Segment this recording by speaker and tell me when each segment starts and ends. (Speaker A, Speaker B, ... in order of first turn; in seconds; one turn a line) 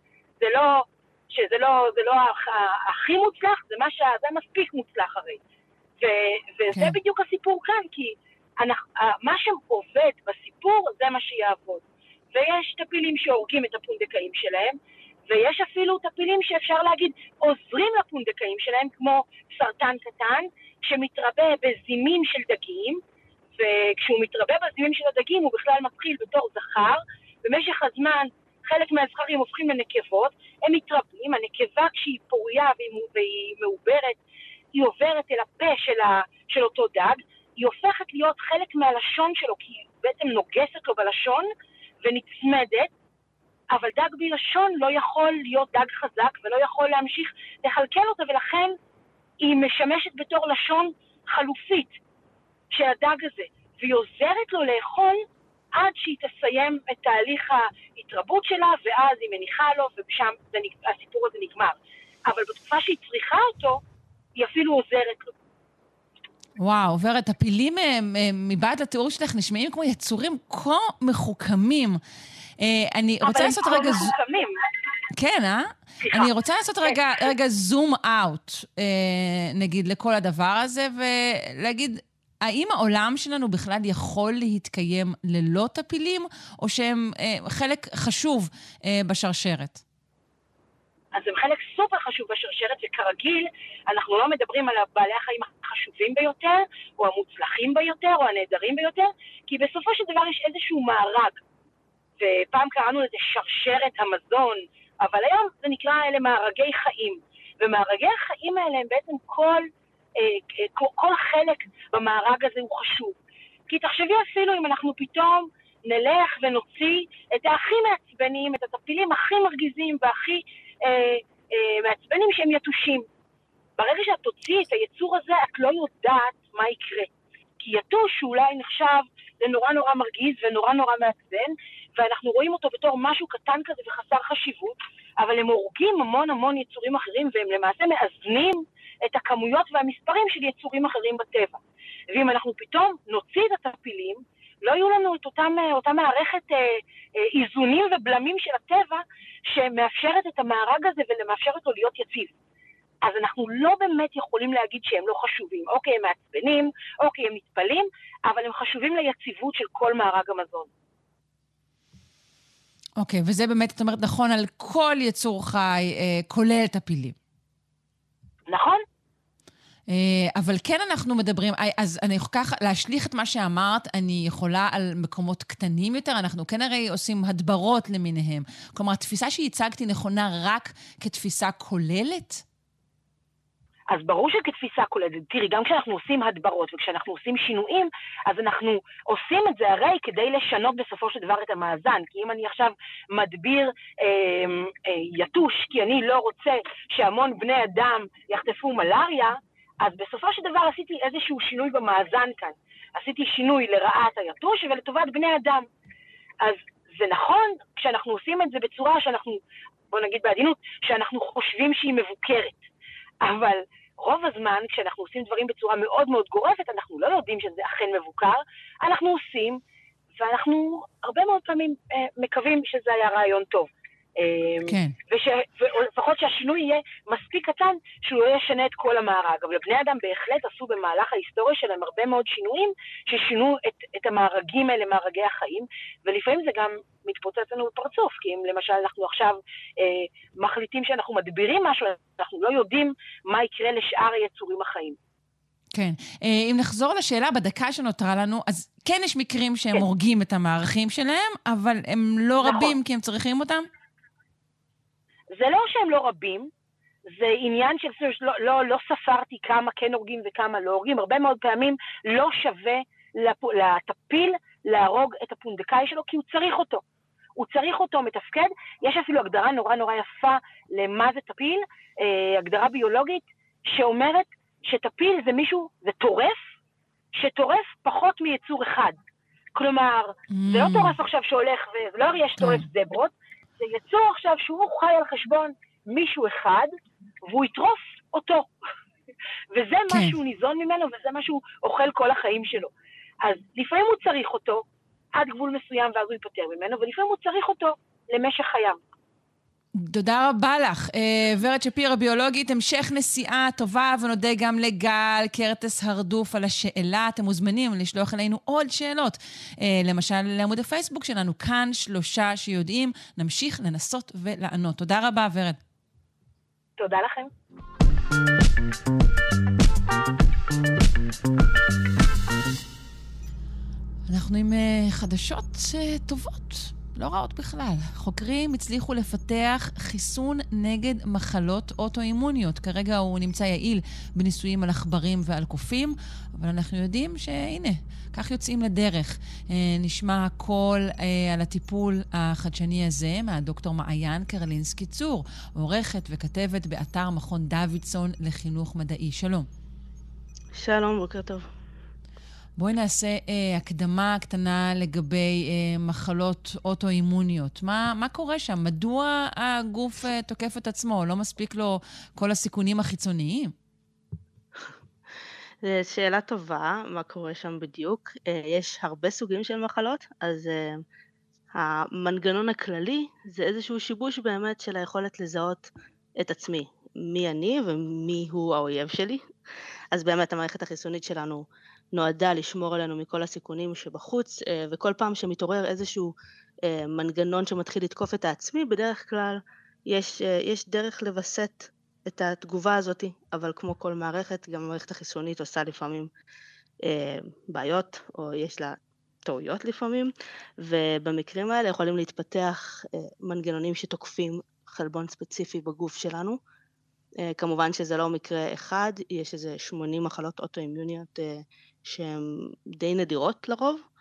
Speaker A: 0.4-5.4
Speaker A: 6.0-14.8
Speaker A: 15.3-23.0
Speaker A: 23.6-34.2
Speaker A: 34.8-41.5
Speaker A: 42.0-42.9
Speaker A: 43.7-48.8
Speaker A: 49.4-51.9
Speaker A: 52.7-55.2
Speaker A: 55.7-63.8
Speaker A: 64.4-65.3
Speaker B: 66.6-72.0
Speaker B: 72.6-74.1
Speaker A: 73.2-74.6
Speaker B: 75.1-89.8
Speaker A: 76.0-76.3
Speaker A: 76.8-77.3
Speaker A: 91.1-101.4
Speaker A: 102.2-109.7
Speaker A: 110.2-113.2
Speaker A: 113.7-123.0
Speaker A: 123.8-141.6
Speaker A: 142.1-152.3
Speaker A: 153.0-160.7
Speaker B: 163.0-167.2
Speaker A: 168.5-168.8
Speaker B: 169.9-182.4
Speaker A: 183.9-205.7
Speaker A: 206.4-209.4
Speaker A: 209.9-212.6
Speaker A: 213.2-219.6
Speaker A: 220.2-245.0
Speaker B: 224.7-224.9
Speaker B: 245.7-253.7
Speaker A: 252.4-252.8
Speaker A: 255.3-256.5
Speaker A: 257.2-266.8
Speaker A: 267.4-276.4
Speaker A: 277.1-279.0
Speaker A: 279.6-286.7
Speaker B: 280.3-281.0
Speaker B: 282.4-282.6
Speaker A: 287.3-288.5
Speaker A: 289.5-292.7
Speaker B: 289.9-290.2
Speaker A: 293.2-294.6
Speaker A: 295.1-298.8
Speaker B: 299.8-315.6
Speaker A: 316.8-317.3
Speaker B: 324.1-349.5
Speaker C: 350.6-351.4
Speaker B: 352.6-363.5
Speaker C: 365.6-370.8
Speaker C: 371.6-375.7
Speaker C: 376.2-379.2
Speaker C: 379.9-386.1
Speaker C: 386.6-396.1
Speaker C: 396.8-406.4
Speaker C: 407.2-413.8